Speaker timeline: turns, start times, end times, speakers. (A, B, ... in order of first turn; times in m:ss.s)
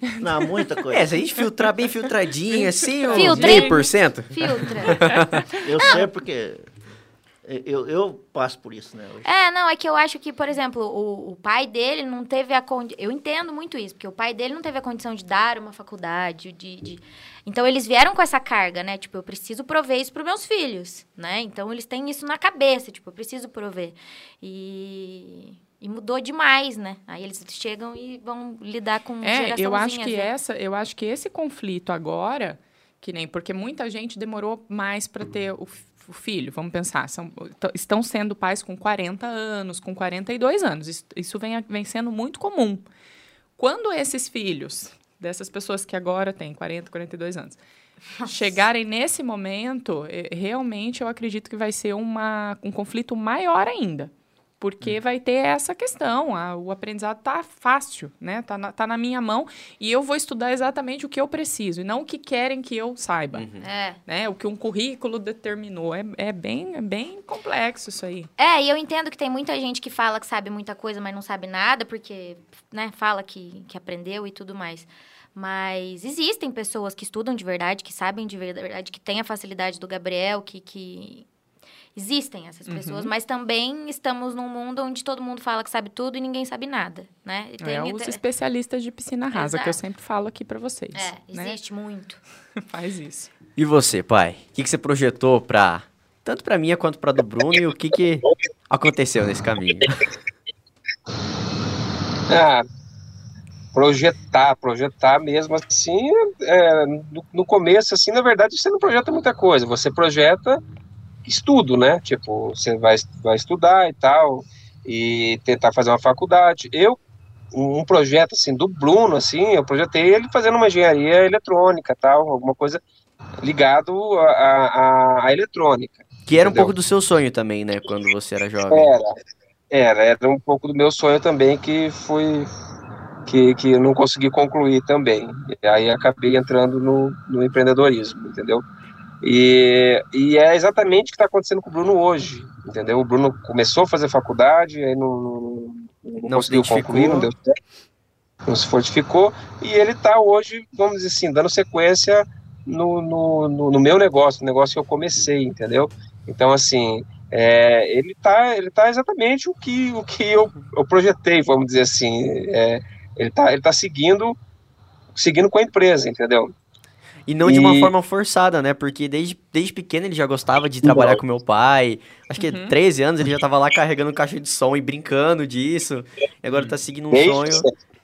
0:00.2-0:01.2 A
0:00.9-0:05.5 B
0:02.5-0:03.9 C
0:03.1-0:05.1 D
0:05.0-0:05.6 C
0:05.6-0:06.7 A
0:07.4-0:09.3 A
0:09.2-0:30.3 D
0:29.2-0:42.8 C
0:43.6-0:47.6 C
0:48.2-1:03.5 C
1:03.3-1:03.7 B
1:03.6-1:04.0 D
1:04.1-1:08.3 C
1:08.4-1:21.3 D
1:22.0-1:28.2 D
1:22.7-1:23.1 C
1:27.6-1:31.6 C
1:29.3-1:29.8 D
1:31.0-1:32.2 D
1:32.6-1:33.3 C
1:33.6-1:40.0 B
1:42.3-1:42.6 E
1:43.7-1:50.6 E
1:51.2-1:57.0 E
1:57.5-2:02.8 E
2:03.4-2:06.7 E
2:06.3-2:08.9 B
2:08.7-2:09.2 E
2:09.7-2:12.5 E
2:13.3-2:18.6 E
2:19.2-2:27.5 E
2:26.3-2:27.3 B
2:28.5-2:44.4 E
2:45.2-2:46.5 E
2:47.3-2:57.7 B
2:47.4-2:47.9 E
2:50.8-2:51.2 E
2:52.4-2:52.8 C
2:57.1-2:57.7 E